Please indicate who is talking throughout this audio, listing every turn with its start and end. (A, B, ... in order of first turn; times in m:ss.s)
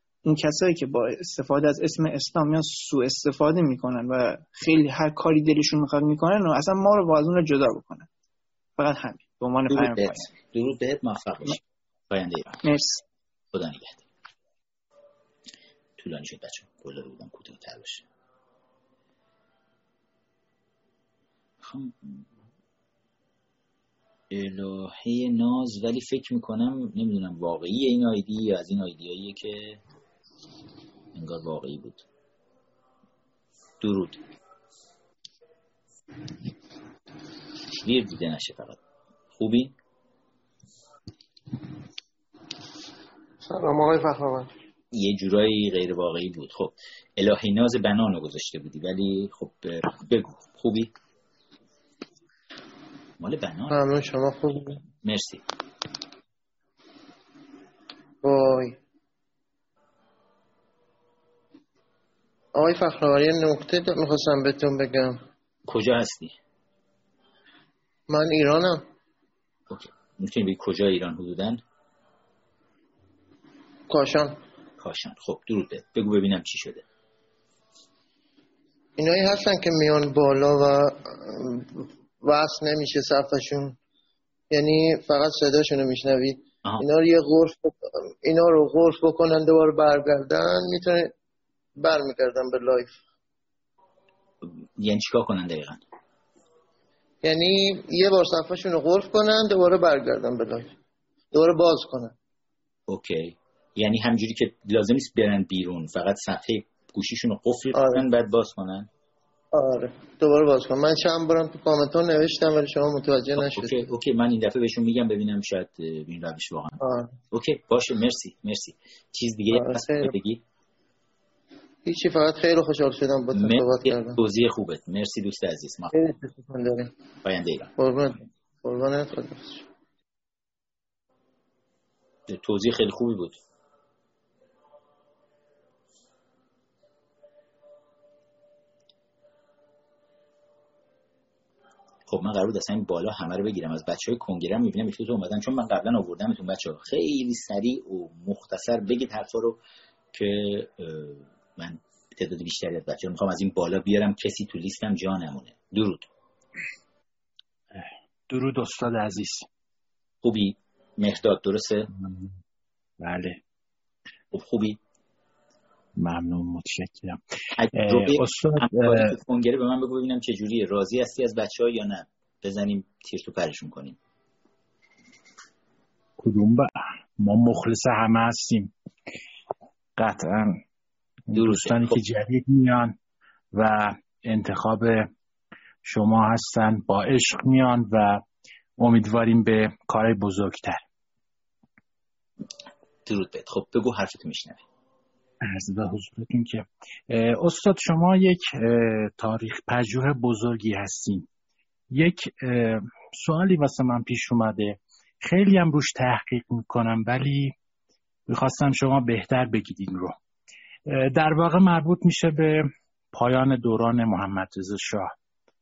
0:00.2-0:08.1 A
0:08.8-0:10.3 A
0:09.7-0:12.6 B
0:12.6-0:13.0 A
0:13.5-0:14.0 B
0:16.0-0:18.1 B
0:21.6-0:22.2 B
0:24.3-0:29.8 B
0:31.1-0:32.0 B
0:33.8-0:34.2 B
0:37.8-0:38.8 B
0:39.3-0:39.8 B
0:43.4-0:44.5 C
0:44.9-0:50.9 B
0:53.2-0:53.8 B
0:53.7-0:54.8 C
0:55.0-0:55.4 B
0:58.2-0:58.8 C
1:02.6-1:05.2 C
1:05.7-1:06.3 B
1:08.1-1:08.8 C
1:09.7-1:11.6 B
1:13.9-1:14.4 C
1:14.8-1:16.8 B
1:19.0-1:23.8 C
1:24.5-1:31.1 C
1:31.8-1:33.0 C
1:34.4-1:35.8 B
1:37.2-1:40.7 C
1:41.3-1:42.2 C
1:42.9-1:48.9 B
1:47.7-1:48.0 C
1:49.5-1:53.8 C
1:53.4-1:56.8 B
1:56.8-1:57.1 C
1:57.3-2:00.4 B
1:59.5-2:00.2 C
2:01.9-2:04.2 C
2:03.4-2:05.9 B
2:05.9-2:06.9 C
2:07.2-2:07.7 B
2:07.8-2:09.7 C
2:12.3-2:13.4 B
2:22.1-2:29.6 B
2:30.1-2:36.1 B
2:37.7-2:39.5 D
2:40.2-2:41.9 B
2:41.9-2:42.3 D
2:43.0-2:43.4 D
2:44.3-2:44.8 B
2:46.0-2:47.2 D
2:47.6-2:54.0 B
2:47.7-2:49.2 D
2:56.2-2:58.7 D
3:00.0-3:00.6 D
3:01.3-3:03.0 D
3:01.3-3:02.0 B
3:03.5-3:05.1 D
3:05.8-3:08.2 D
3:08.8-3:10.8 D
3:13.1-3:14.6 B
3:15.4-3:21.3 D
3:21.9-3:27.5 D
3:28.3-3:30.2 D
3:30.9-3:35.1 D